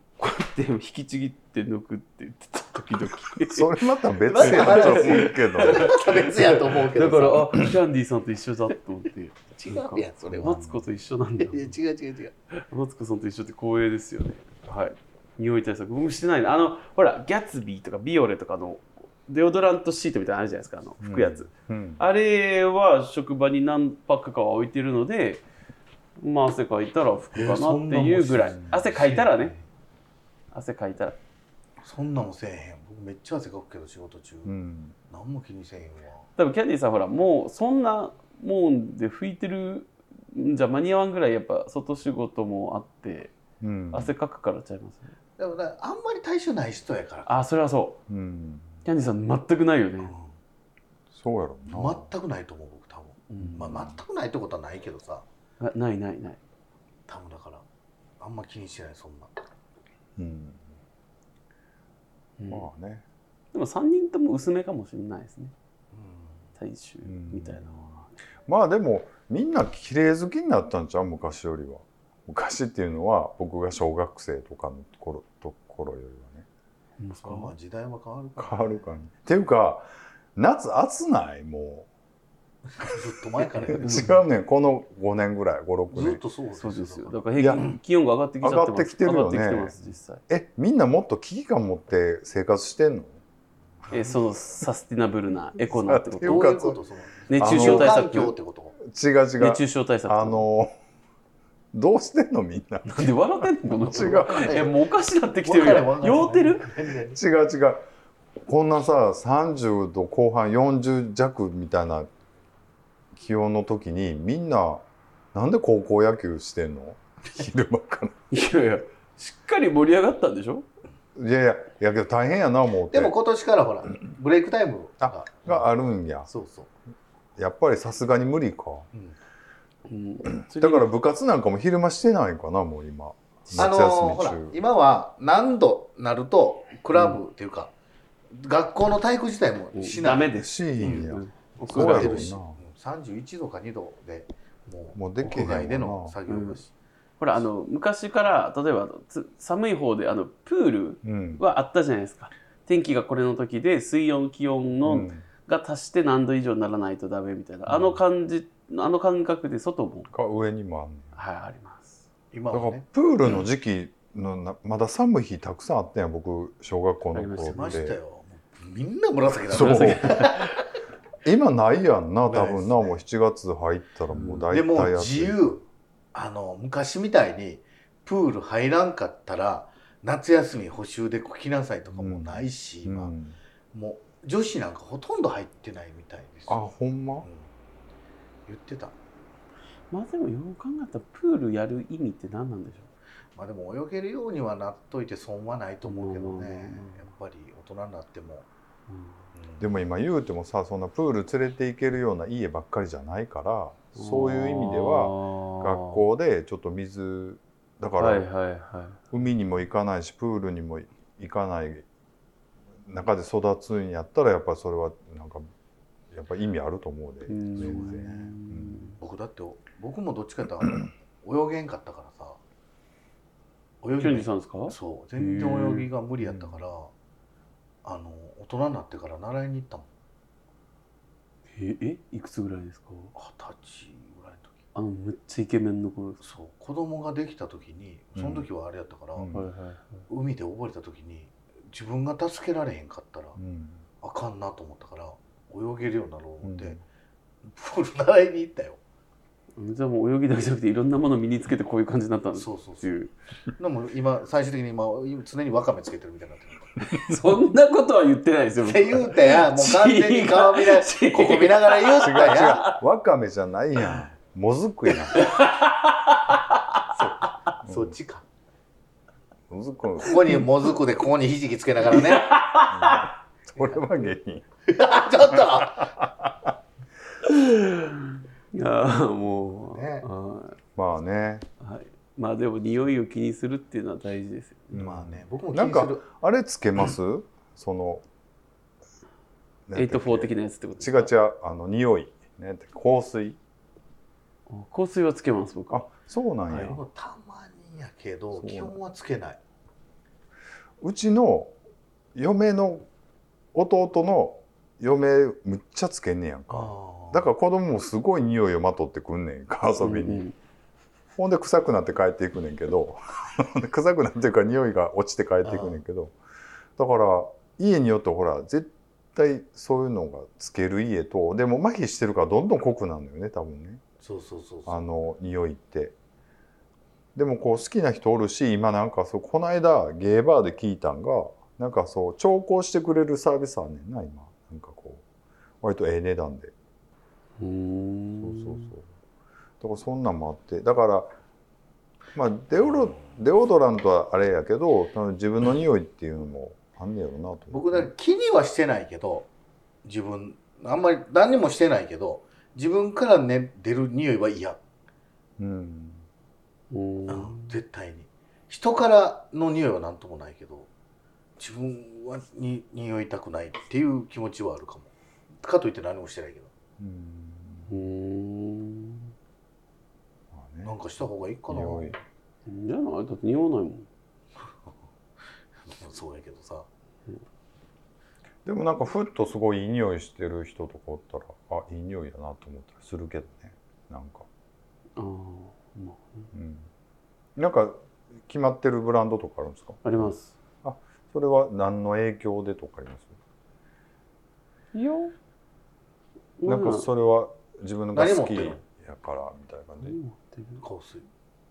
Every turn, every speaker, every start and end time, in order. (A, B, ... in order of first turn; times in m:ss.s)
0:00.2-0:03.8 A
0:03.4-0:06.1 B
0:04.3-0:07.6 C
0:04.3-0:11.7 A
0:09.5-0:10.6 C
0:10.3-0:10.8 B
0:11.4-0:12.3 C
0:12.6-0:25.4 A
0:21.0-0:22.0 B
0:26.2-0:29.5 A
0:27.3-0:29.6 C
0:30.5-0:31.2 A
0:31.8-0:34.5 C
0:34.4-0:34.9 B
0:35.1-0:36.3 C
0:36.4-0:43.3 A
0:43.6-0:44.1 B
0:43.9-0:45.1 A
0:45.4-0:47.4 C
0:47.2-0:48.0 A
0:48.1-0:48.7 B
0:48.8-0:50.1 A
0:50.0-0:50.3 C
0:51.1-0:52.0 B
0:51.7-0:55.2 C
0:53.3-0:53.8 A
0:53.6-0:54.0 B
0:55.6-0:56.4 A
0:57.1-0:57.6 C
0:58.2-0:59.4 C
1:00.2-1:00.7 B
1:02.4-1:02.7 A
1:02.5-1:03.0 B
1:03.5-1:05.5 A
1:05.9-1:06.4 C
1:06.6-1:08.1 A
1:07.0-1:07.6 B
1:08.4-1:16.4 B
1:17.0-1:17.5 A
1:17.2-1:18.9 C
1:18.4-1:21.9 B
1:22.8-1:24.2 C
1:23.7-1:26.2 B
1:23.7-1:24.1 A
1:25.9-1:27.8 C
1:26.6-1:30.2 A
1:27.4-1:27.8 B
1:28.4-1:29.8 B
1:30.3-1:33.2 B
1:33.9-1:36.6 A
1:35.7-1:36.8 B
1:36.2-1:38.8 C
1:37.3-1:38.3 A
1:37.4-1:40.7 B
1:39.4-1:40.4 A
1:41.7-1:44.5 B
1:42.8-1:46.7 A
1:44.0-1:44.8 C
1:45.4-1:47.2 C
1:47.1-1:47.8 B
1:48.4-1:52.1 B
1:53.1-1:58.2 B
1:58.3-2:00.6 A
2:01.2-2:03.1 B
2:02.9-2:05.6 C
2:05.0-2:06.3 B
2:06.3-2:06.7 C
2:07.4-2:08.9 B
2:09.9-2:10.9 A
2:10.5-2:14.6 B
2:13.5-2:17.7 C
2:18.3-2:26.7 C
2:19.7-2:22.3 A
2:20.3-2:22.6 B
2:25.0-2:26.2 B
2:26.3-2:26.6 A
2:27.2-2:40.1 A
2:31.0-2:31.4 B
2:34.8-2:35.2 B
2:37.7-2:38.0 B
2:40.1-2:41.1 B
2:41.1-2:42.0 A
2:42.3-2:43.4 C
2:42.5-2:48.0 B
2:47.1-2:47.8 A
2:47.5-2:50.6 C
2:49.5-2:50.4 B
2:49.6-2:50.5 A
2:51.2-2:55.4 B
2:52.3-2:53.0 C
2:54.1-2:54.5 A
2:54.5-3:03.1 C
3:01.9-3:03.3 B
3:03.7-3:06.6 C
3:06.5-3:07.3 B
3:07.2-3:07.5 C
3:08.5-3:09.0 C
3:09.9-3:12.9 A
3:13.4-3:18.5 C
3:15.8-3:17.0 A
3:18.9-3:19.2 A
3:19.3-3:19.7 C
3:19.6-3:28.2 B
3:23.9-3:26.0 A
3:28.0-3:29.0 A
3:29.1-3:31.8 B
3:32.8-3:35.5 B
3:36.1-3:38.9 B
3:37.3-3:39.0 A
3:37.6-3:38.3 C
3:39.0-3:42.4 C
3:43.8-3:46.9 C
3:44.0-3:45.9 A
3:47.8-3:49.9 C
3:51.5-3:53.1 A
3:53.1-3:54.5 C
3:54.7-3:56.2 A
3:56.2-3:59.3 C
3:58.2-3:58.5 B
3:59.2-3:59.5 B
3:59.3-3:59.9 A
4:00.1-4:03.4 C
4:03.4-4:03.8 B
4:04.0-4:06.8 C
4:06.4-4:06.8 B
4:07.4-4:08.8 C
4:09.6-4:13.1 A
4:12.3-4:12.9 C
4:13.6-4:16.8 C
4:16.9-4:22.8 A
4:18.6-4:22.6 C
4:22.0-4:25.3 B
4:25.1-4:26.9 A
4:26.9-4:28.2 C
4:27.6-4:27.9 B
4:29.5-4:30.4 B
4:30.0-4:32.4 C
4:31.9-4:33.1 A
4:32.7-4:34.5 B
4:33.5-4:34.1 C
4:34.7-4:36.0 C
4:35.3-4:36.5 B
4:37.2-4:40.6 A
4:39.5-4:40.1 C
4:40.8-4:41.4 B
4:41.6-4:44.8 A
4:44.7-4:48.0 B
4:44.8-4:46.0 C
4:49.7-4:53.4 B
4:49.7-4:51.1 A
4:54.5-4:55.8 A
4:55.7-4:56.8 B
4:56.5-4:56.7 A
4:56.5-4:59.4 C
4:58.4-4:58.8 B
5:00.8-5:01.5 B
5:02.1-5:02.9 B
5:03.5-5:10.2 B
5:06.5-5:07.2 C
5:09.8-5:10.3 A
5:11.2-5:16.1 B
5:15.4-5:15.8 C
5:16.8-5:23.8 B
5:24.0-5:24.8 C
5:24.6-5:25.9 B
5:27.1-5:35.0 B
5:35.6-5:36.5 B
5:37.4-5:38.7 A
5:38.2-5:38.9 B
5:39.6-5:41.1 B
5:42.1-5:47.9 B
5:47.5-5:49.3 C
5:49.8-5:54.6 C
5:55.4-5:56.0 B
5:56.7-5:57.5 A
5:57.1-6:00.7 C
6:01.4-6:06.5 C
6:06.8-6:07.7 B
6:07.7-6:09.1 A
6:10.3-6:10.7 B
6:10.6-6:12.0 C
6:11.5-6:12.0 B
6:12.4-6:13.9 A
6:15.6-6:16.7 C
6:18.4-6:24.3 B
6:25.0-6:26.3 A
6:26.3-6:26.7 B
6:27.4-6:30.1 B
6:29.8-6:30.4 A
6:30.6-6:33.2 B
6:34.7-6:35.1 A
6:36.4-6:36.9 A
6:36.4-6:40.0 B
6:37.9-6:38.6 C
6:39.8-6:40.6 A
6:40.6-6:41.1 C